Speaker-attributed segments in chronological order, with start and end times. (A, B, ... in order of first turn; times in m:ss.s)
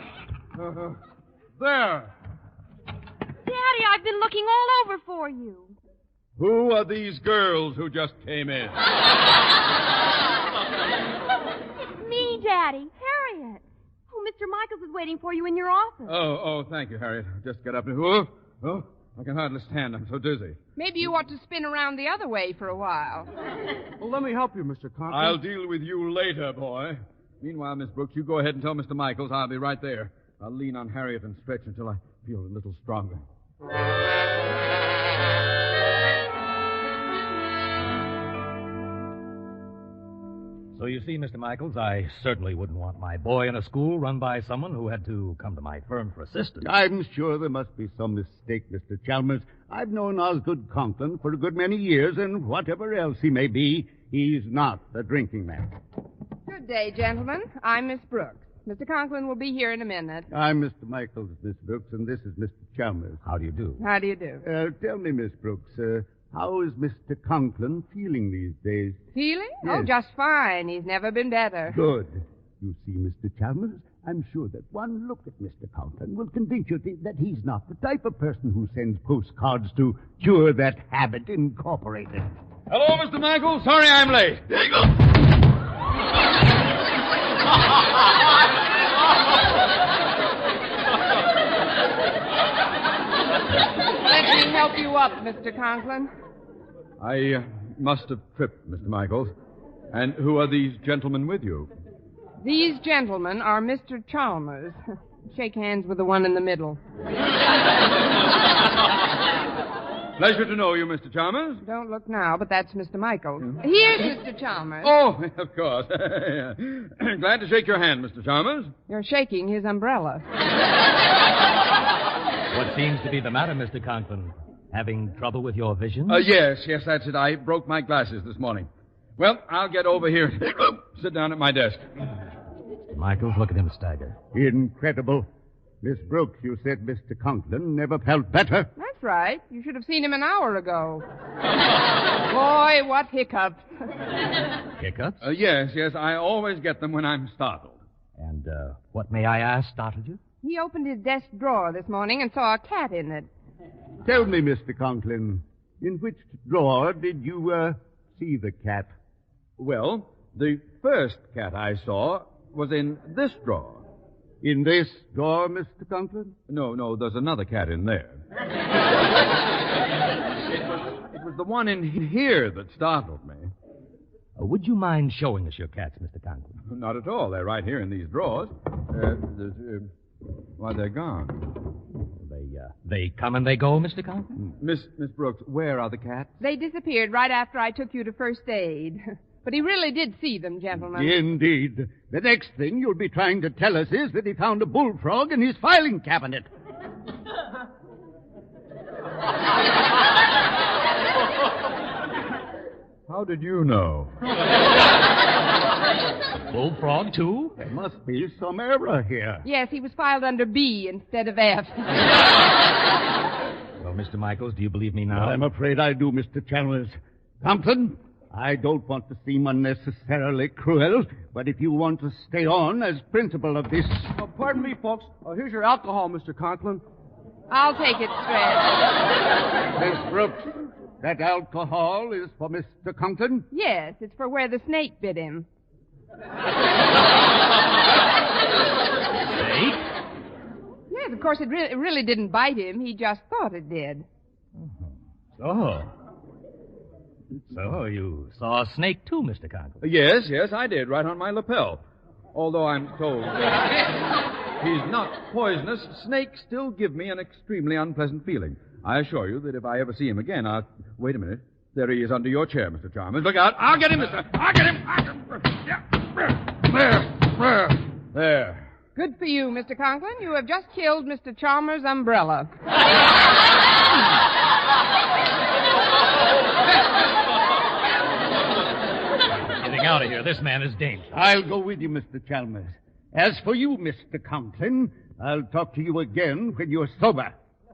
0:00.6-0:01.0 A
0:01.6-0:02.1 A
0:03.4-0:05.8 B
0:06.4-0:08.8 A
0:12.0-0:16.2 B
0:16.1-0:20.6 A
0:20.8-0:23.3 C
0:24.0-0:25.4 D
0:25.1-0:33.2 A
0:40.8-0:46.6 E
0:46.6-0:55.8 F
0:56.5-1:00.3 C
1:00.3-1:03.2 F
1:03.3-1:03.8 E
1:03.8-1:04.4 C
1:04.4-1:09.0 F
1:09.1-1:11.8 C
1:09.6-1:09.9 F
1:11.7-1:22.3 F
1:22.7-1:24.9 A
1:34.0-1:36.1 C
1:37.0-1:39.3 A
1:39.9-1:41.7 A
1:42.4-1:44.8 C
1:45.3-1:46.8 C
1:50.2-1:51.6 A
1:51.6-1:54.9 C
1:54.8-1:58.7 A
1:58.9-2:00.3 C
2:02.5-2:06.2 E
2:06.1-2:12.2 A
2:12.9-2:14.2 E
2:14.3-2:15.3 F
2:15.8-2:18.7 F
2:18.8-2:21.0 C
2:22.2-2:23.6 C
2:24.8-2:25.2 E
2:25.2-2:27.8 A
2:28.2-2:30.2 E
2:30.4-2:33.3 C
2:34.0-2:38.9 F
2:39.6-2:43.9 A
2:44.4-2:46.4 F
2:46.5-2:48.2 A
2:50.5-2:53.5 A
2:54.4-2:56.6 E
2:56.7-2:59.9 A
3:00.6-3:01.5 A
3:02.2-3:04.3 E
3:04.6-3:06.3 A
3:06.4-3:11.2 C
3:10.9-3:16.5 F
3:23.1-3:24.2 A
3:26.5-3:27.5 E
3:27.6-3:29.4 F
3:29.4-3:32.2 C
3:33.8-3:35.4 E
3:35.1-3:44.1 F
3:44.2-3:46.8 D
3:47.5-3:48.8 C
3:49.7-3:53.5 F
3:53.5-3:55.5 C
3:59.4-3:59.8 E
4:00.9-4:04.1 C
4:05.4-4:05.9 E
4:07.5-4:09.8 E
4:09.8-4:11.8 A
4:12.3-4:13.8 A
4:14.6-4:28.7 A
4:29.0-4:32.5 C
4:39.6-4:41.1 E
4:41.1-4:47.3 F